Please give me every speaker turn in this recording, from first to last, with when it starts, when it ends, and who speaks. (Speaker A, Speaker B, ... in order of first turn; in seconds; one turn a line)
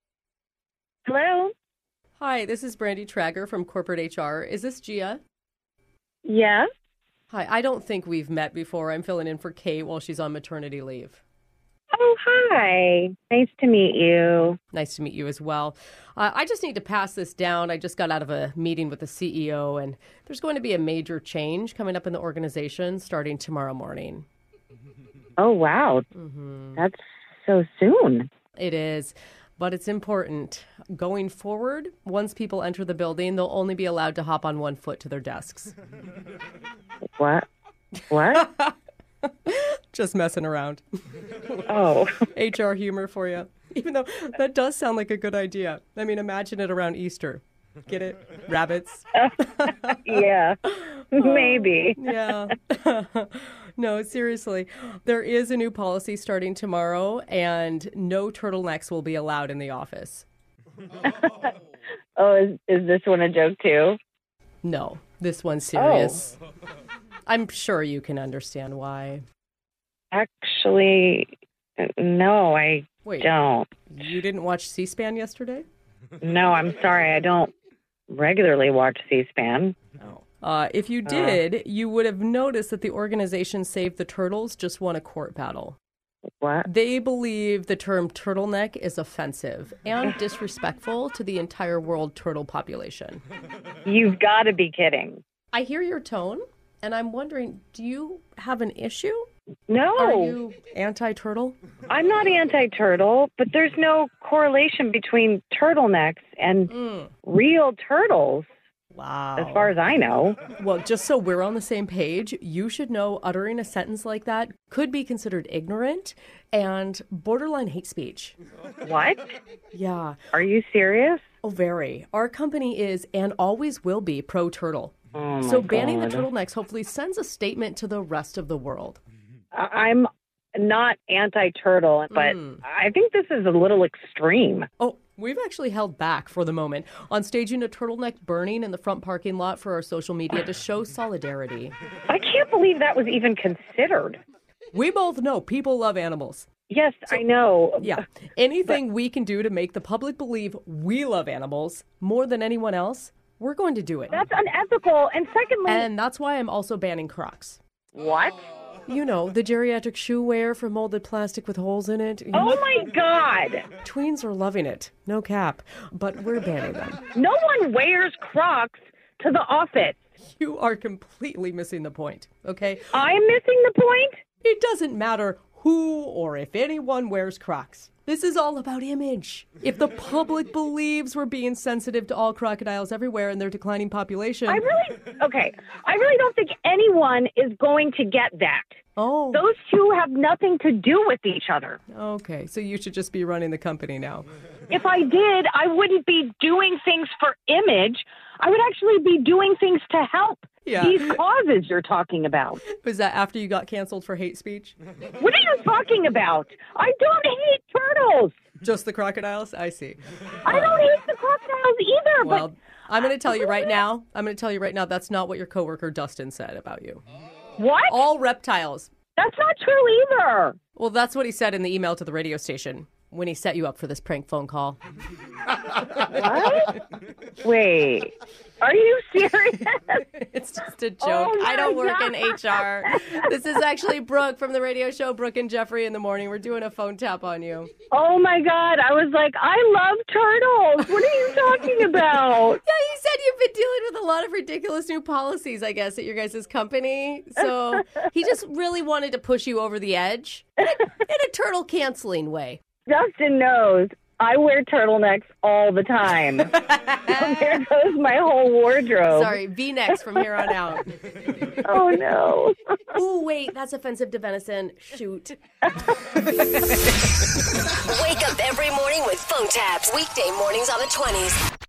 Speaker A: 1.1-1.5
Speaker B: 2.2-5.2
Speaker A: 6.2-6.7
Speaker B: 7.3-11.2
Speaker A: 11.9-14.6
Speaker B: 14.7-24.3
Speaker A: 25.4-26.0
Speaker B: 26.1-26.8
Speaker A: 26.8-28.3
Speaker B: 28.6-35.7
Speaker A: 37.2-37.5
Speaker A: 38.1-38.5
Speaker B: 38.3-38.7
Speaker B: 39.3-40.8
Speaker A: 41.7-42.2
Speaker B: 42.2-50.0
Speaker A: 49.9-50.6
Speaker B: 50.7-60.3
Speaker A: 51.1-52.0
Speaker A: 61.0-61.5
Speaker A: 62.2-64.0
Speaker B: 64.6-66.3
Speaker A: 65.8-66.2
Speaker B: 67.3-69.2
Speaker A: 70.1-73.7
Speaker B: 73.0-73.3
Speaker B: 73.9-75.6
Speaker A: 76.2-77.5
Speaker A: 78.1-79.8
Speaker B: 80.0-85.8
Speaker A: 81.0-81.4
Speaker A: 86.4-86.7
Speaker B: 86.6-93.2
Speaker A: 93.8-95.2
Speaker B: 95.5-99.3
Speaker A: 99.7-100.3
Speaker B: 100.0-101.6
Speaker A: 101.9-106.7
Speaker B: 106.7-107.1
Speaker A: 107.2-108.5
Speaker B: 108.9-109.7
Speaker A: 109.4-110.4
Speaker B: 110.5-118.3
Speaker A: 118.8-119.2
Speaker B: 119.7-120.2
Speaker A: 120.3-121.2
Speaker B: 121.4-129.0
Speaker A: 125.1-126.2
Speaker A: 129.5-134.7
Speaker B: 132.1-132.6
Speaker B: 134.8-141.7
Speaker A: 142.1-144.2
Speaker B: 144.7-146.4
Speaker A: 146.7-148.0
Speaker B: 147.8-154.2
Speaker A: 154.1-155.9
Speaker B: 155.7-157.6
Speaker A: 157.9-158.4
Speaker B: 158.8-162.7
Speaker A: 162.3-163.7
Speaker B: 163.8-167.1
Speaker A: 167.1-170.0
Speaker B: 170.2-172.9
Speaker A: 172.9-174.1
Speaker B: 174.4-184.6
Speaker A: 184.5-188.7
Speaker B: 188.9-189.4
Speaker A: 189.3-191.8
Speaker B: 191.9-194.2
Speaker A: 194.7-202.6
Speaker B: 200.6-201.2
Speaker B: 202.7-204.7
Speaker A: 205.2-208.3
Speaker B: 208.6-210.8
Speaker A: 210.4-212.4
Speaker B: 212.2-217.0
Speaker A: 213.3-213.6
Speaker A: 217.6-217.9
Speaker B: 217.9-218.9
Speaker A: 219.2-220.6
Speaker B: 220.8-224.8
Speaker A: 226.0-226.8
Speaker A: 227.4-230.0
Speaker B: 230.2-237.7
Speaker A: 231.0-232.4
Speaker A: 237.9-242.6
Speaker B: 242.6-252.6
Speaker A: 252.9-259.4
Speaker B: 256.8-257.3
Speaker B: 259.1-261.1
Speaker A: 261.6-262.6
Speaker B: 262.9-265.4
Speaker C: 267.8-271.4